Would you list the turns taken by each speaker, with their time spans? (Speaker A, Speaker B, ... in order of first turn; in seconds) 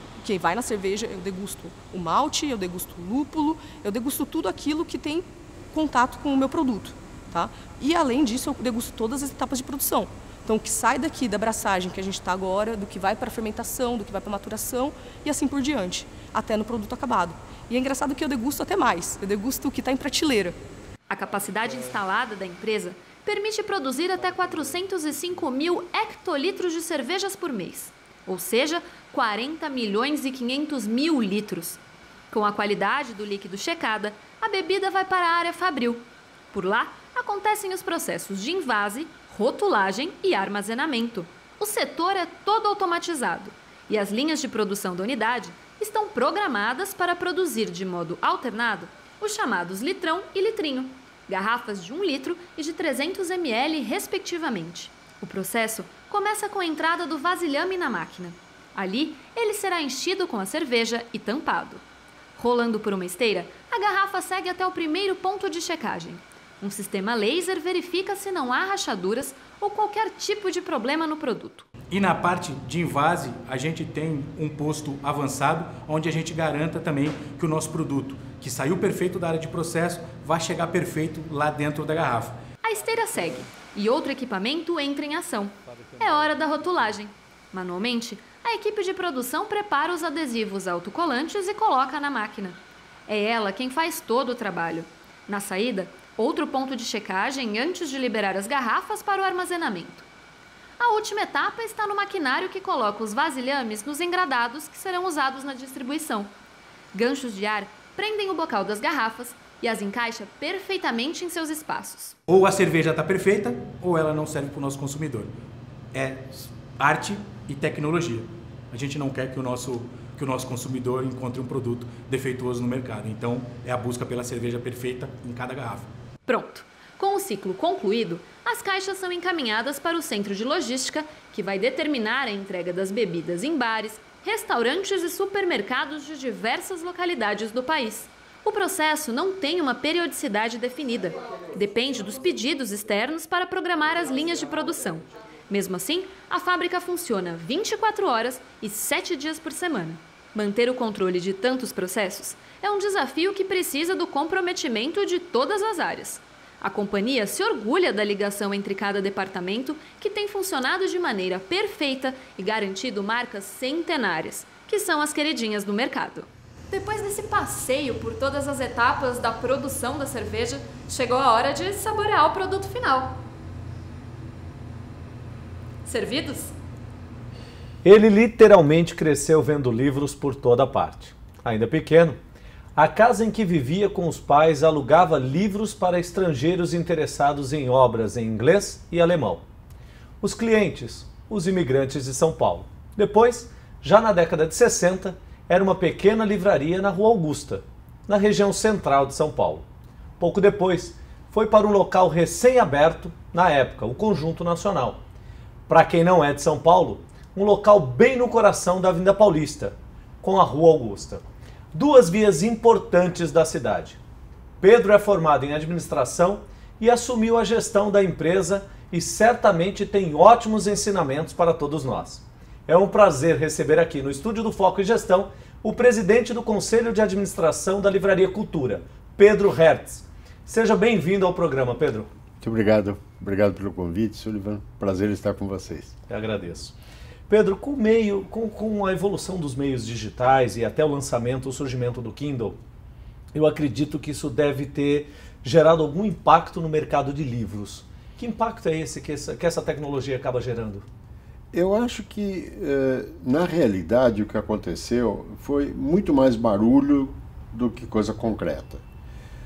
Speaker A: 0.2-20.6
Speaker B: 21.1-61.8, 62.4-71.7, 82.6-100.1, 100.8-106.3, 106.9-112.2, 126.3-173.2, 175.8-176.5
Speaker C: 71.9-82.4, 112.3-115.3, 115.9-125.9
Speaker D: 177.8-182.2, 182.8-189.4, 190.2-199.7, 200.2-205.0, 205.7-214.0, 214.6-232.1, 236.1-236.8, 237.3-242.6, 243.3-250.9
Speaker E: 232.4-236.0, 251.5-258.8